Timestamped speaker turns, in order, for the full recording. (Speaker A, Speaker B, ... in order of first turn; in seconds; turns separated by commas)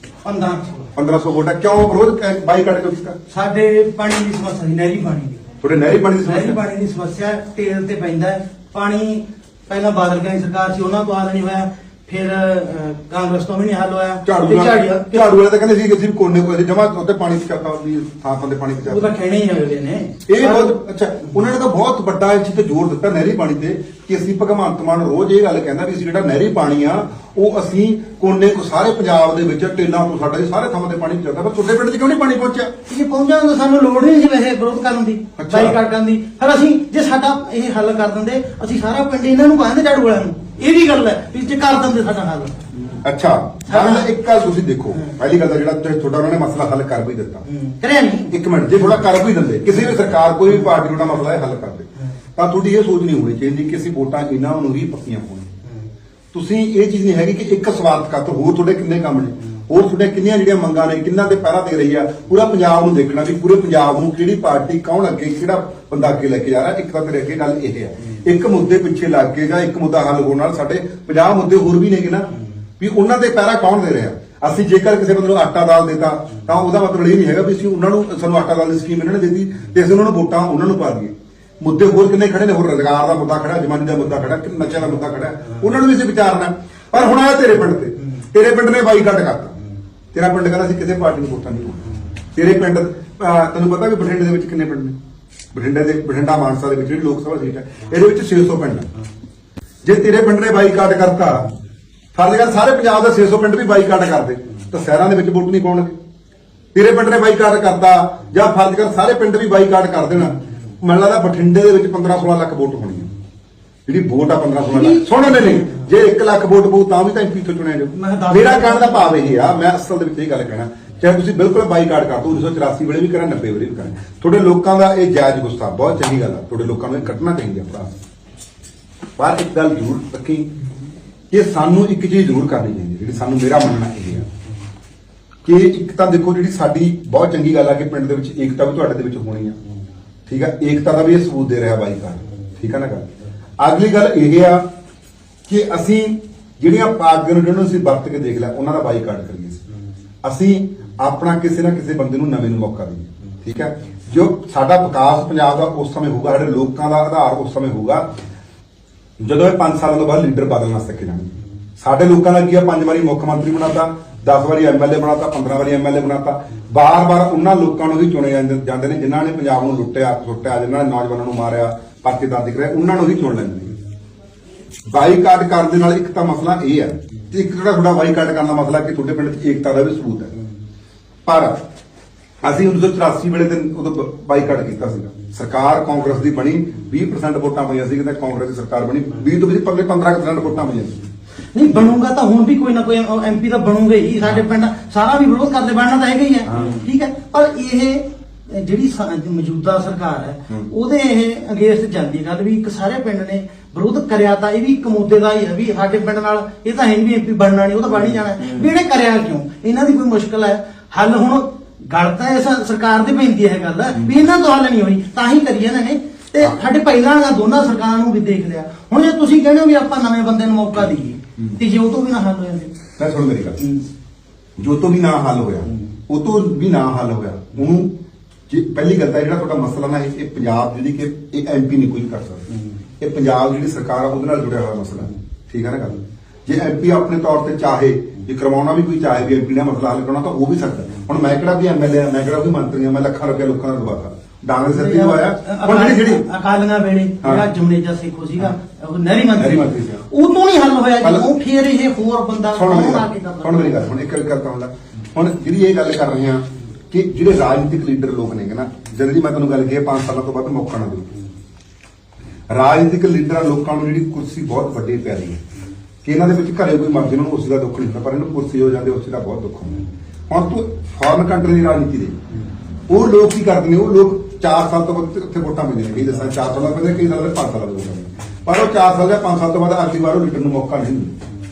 Speaker A: 0.2-0.9, Speaker B: 0.9-3.2, Speaker A: 3.3-5.4, Speaker B: 5.6-6.6, Speaker A: 6.2-15.3, Speaker B: 14.2-19.1, Speaker A: 18.9-20.7, Speaker B: 20.3-32.7, Speaker A: 32.9-42.6, Speaker B: 35.4-35.7, Speaker B: 43.0-47.4, Speaker A: 43.7-44.1, Speaker A: 47.5-48.3, Speaker B: 48.3-55.5, Speaker B: 56.3-89.5, Speaker B: 90.1-95.0, Speaker B: 95.5-98.9, Speaker B: 99.8-101.5, Speaker B: 102.1-106.0, Speaker B: 106.7-113.1, Speaker B: 113.9-127.9, Speaker A: 114.7-115.8, Speaker A: 117.9-119.5, Speaker B: 129.2-130.5, Speaker B: 131.3-134.3, Speaker B: 135.4-139.6, Speaker B: 140.3-143.1, Speaker B: 143.6-144.6, Speaker B: 145.5-149.6, Speaker B: 150.2-158.1, Speaker B: 159.2-173.7, Speaker B: 174.9-180.3, Speaker B: 181.2-181.6, Speaker B: 182.4-191.1, Speaker A: 191.5-222.7, Speaker B: 196.5-196.8, Speaker B: 223.0-223.6, Speaker B: 224.6-227.9, Speaker B: 228.5-232.4, Speaker B: 233.0-246.2, Speaker A: 244.7-253.8, Speaker B: 249.4-250.1, Speaker B: 252.5-261.1, Speaker B: 262.5-265.4, Speaker B: 266.0-272.1, Speaker B: 272.9-281.1